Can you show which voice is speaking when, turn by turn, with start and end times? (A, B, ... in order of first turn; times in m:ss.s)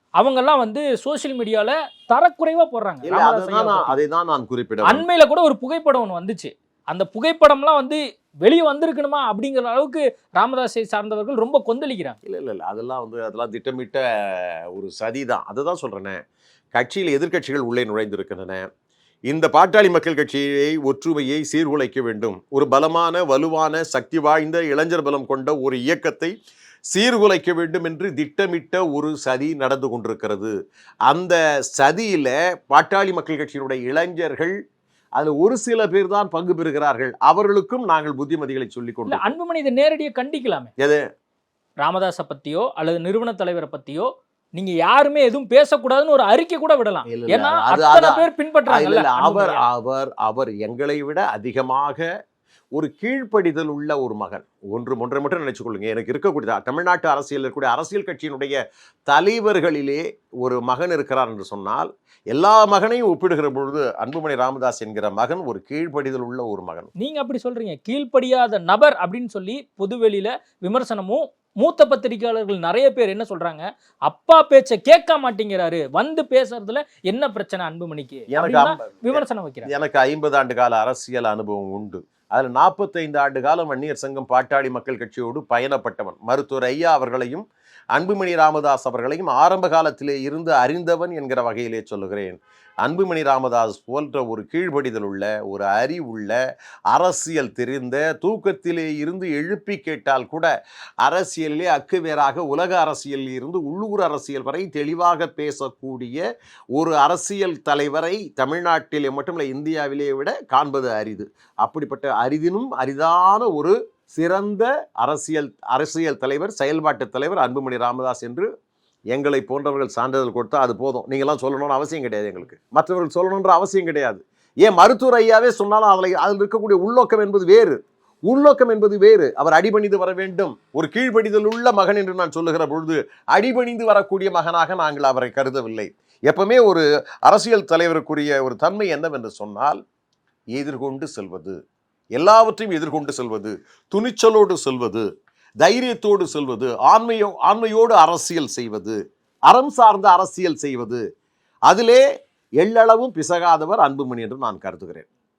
0:00.2-0:04.0 A
0:03.0-0:05.1 B
0:04.8-0:12.2 A
0:12.2-0:16.2 B
0:16.7-0:18.7 B
0:19.3-0:26.3 B
0:26.9-0:30.5 B
0:31.1-0:34.6 B
0:35.2-0:39.3 B
0:39.1-0:40.7 A
0:41.8-0:49.6 A
0:47.1-0:52.0 B
0:52.8-1:06.9 B
1:07.0-1:19.7 A
1:18.3-1:36.4 B
1:36.9-1:40.5 B
1:41.0-1:46.2 B
1:46.8-1:58.5 B
1:59.1-2:19.8 B
2:20.6-2:21.6 B
2:22.2-2:25.1 B
2:25.6-2:29.0 B
2:29.5-2:31.0 B
2:31.7-2:32.0 B
2:32.6-2:35.1 B